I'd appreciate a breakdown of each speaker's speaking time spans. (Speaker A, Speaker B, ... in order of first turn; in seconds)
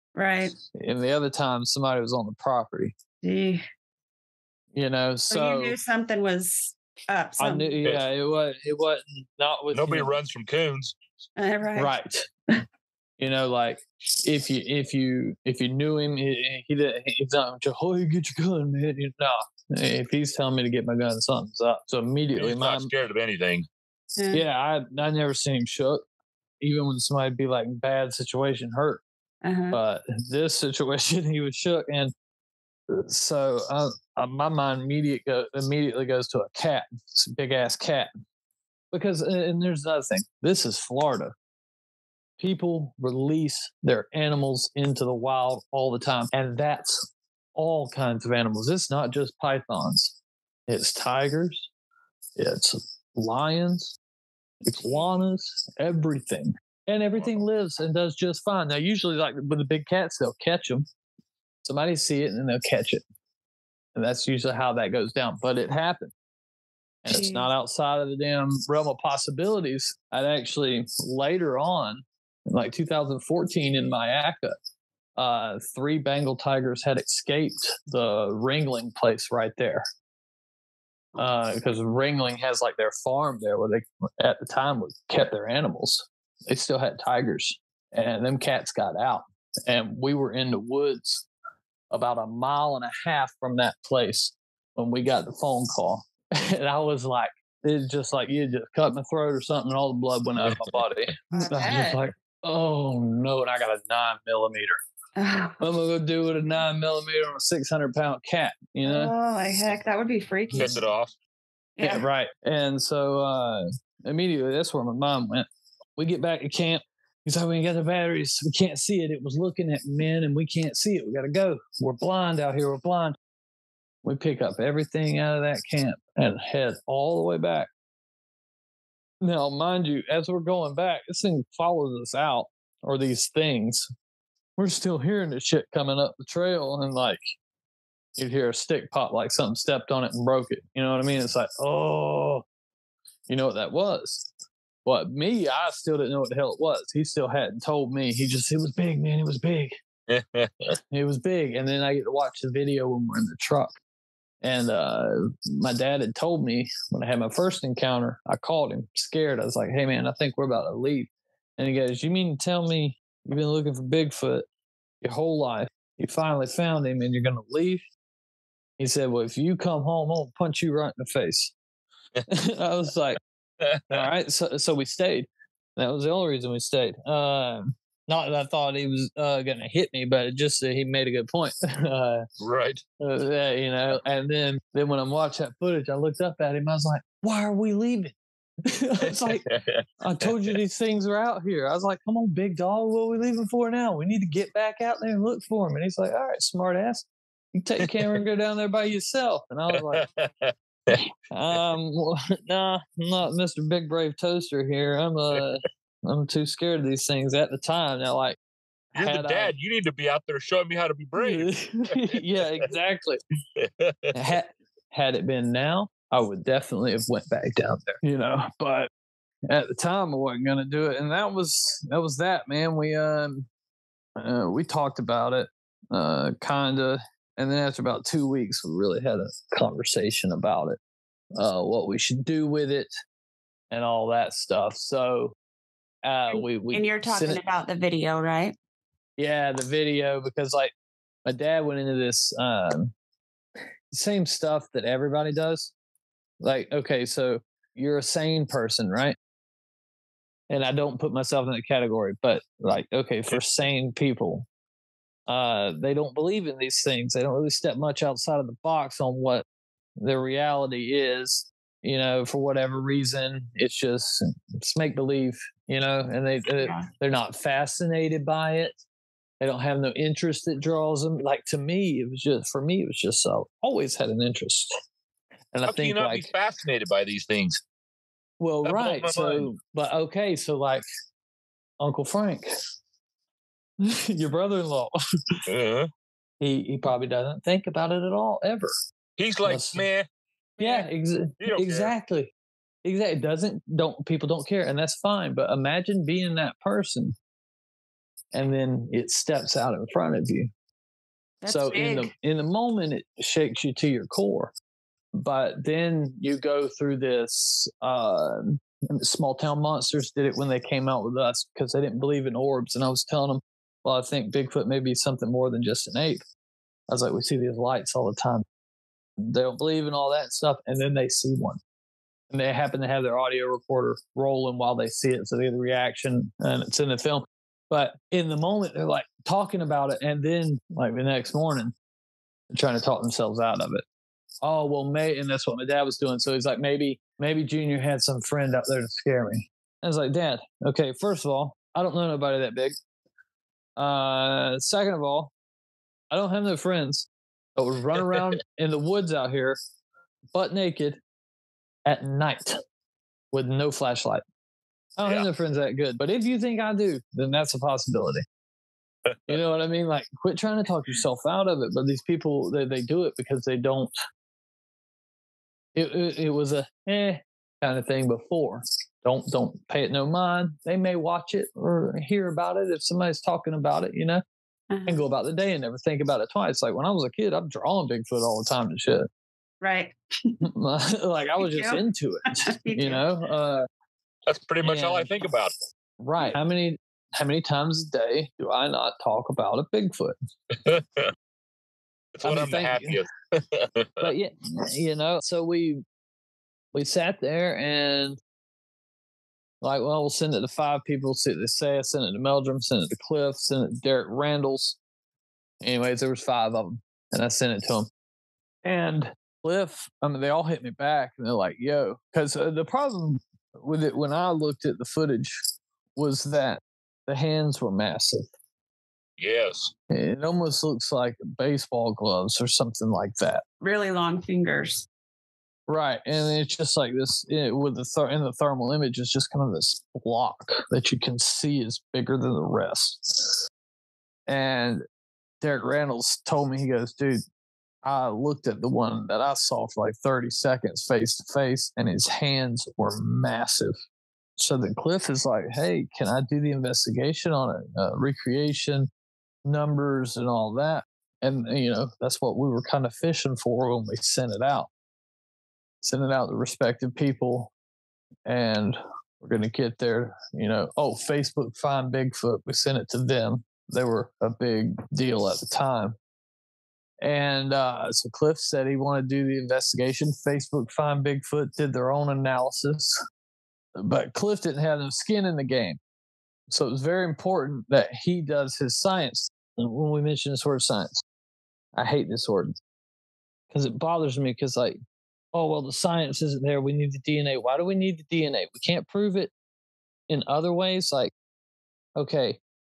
Speaker A: 0.1-0.6, 3.2-3.6, 5.3-7.8, 11.4-11.9, 24.2-24.4, 29.4-29.8, 67.1-67.5, 101.3-102.0, 105.2-105.6, 108.8-110.8, 111.8-112.0, 236.3-238.6, 266.6-266.9, 290.6-290.9, 301.4-302.1, 374.7-375.0, 379.6-380.4, 381.4-381.8, 382.4-383.0, 423.6-424.9
Speaker B: 0.7-2.9, 4.7-5.8, 7.4-10.1, 11.8-12.3, 13.2-22.9, 24.3-26.0, 26.6-29.0, 29.7-32.1, 32.9-38.1, 38.9-41.3, 42.4-47.0, 47.5-50.1, 50.7-51.7, 52.4-54.0, 54.6-60.9, 61.6-63.0, 63.9-66.1, 67.0-74.5, 75.2-79.8, 81.2-91.2, 91.9-104.8, 105.6-109.1, 111.8-123.2, 124.0-127.7, 129.2-133.9, 134.6-137.2, 138.2-142.4, 143.3-144.3, 144.8-149.8, 150.9-153.7, 154.4-164.4, 165.0-167.8, 168.8-171.5, 172.3-173.2, 173.9-182.3, 183.0-188.1, 188.6-189.4, 190.0-200.0, 201.3-208.4, 208.9-209.5, 211.2-213.2, 214.1-218.9, 219.5-223.5, 224.2-230.8, 231.3-232.9, 233.7-235.3, 236.0-237.4, 239.2-240.7, 241.2-242.9, 243.9-245.7, 246.4-249.2, 250.5-254.5, 255.3-259.4, 260.0-268.8, 269.4-274.7, 275.5-276.3, 278.4-280.8, 281.8-282.5, 283.8-284.9, 286.4-288.7, 289.4-289.8, 290.6-292.3, 292.8-297.1, 298.3-300.5, 301.4-304.5, 305.1-316.2, 316.9-318.4, 319.2-321.6, 322.3-331.7, 332.5-333.8, 334.4-342.7, 343.8-345.3, 346.1-349.6, 350.3-351.0, 351.9-352.6, 353.3-354.2, 355.0-358.2, 359.3-363.9, 365.7-374.2, 374.9-379.1, 380.4-383.6, 384.6-385.1, 386.0-390.1, 392.2-393.0, 394.0-395.8, 396.7-398.2, 399.6-404.8, 405.6-407.9, 408.6-415.4, 415.9-418.3, 419.9-423.4, 425.7-433.4, 434.3-434.8, 435.4-437.2, 437.8-443.8, 444.4-448.9, 449.4-454.7, 455.8-457.5, 458.2-465.9, 467.0-473.0, 473.8-475.8, 476.5-481.0, 481.7-482.6, 483.5-484.8, 485.3-489.3, 490.1-491.1, 491.9-492.4
Speaker C: 9.7-11.0, 22.4-23.7, 100.4-100.8, 110.5-111.1, 150.1-150.7, 173.6-174.0, 182.4-182.8, 189.1-190.5, 199.8-201.1, 208.9-212.1, 213.6-214.1, 275.7-277.6, 278.6-279.5, 285.5-285.9, 289.2-290.1, 291.4-291.9, 355.0-355.3, 359.1-359.4, 384.3-385.5, 390.5-391.1, 392.1-394.1, 419.2-419.7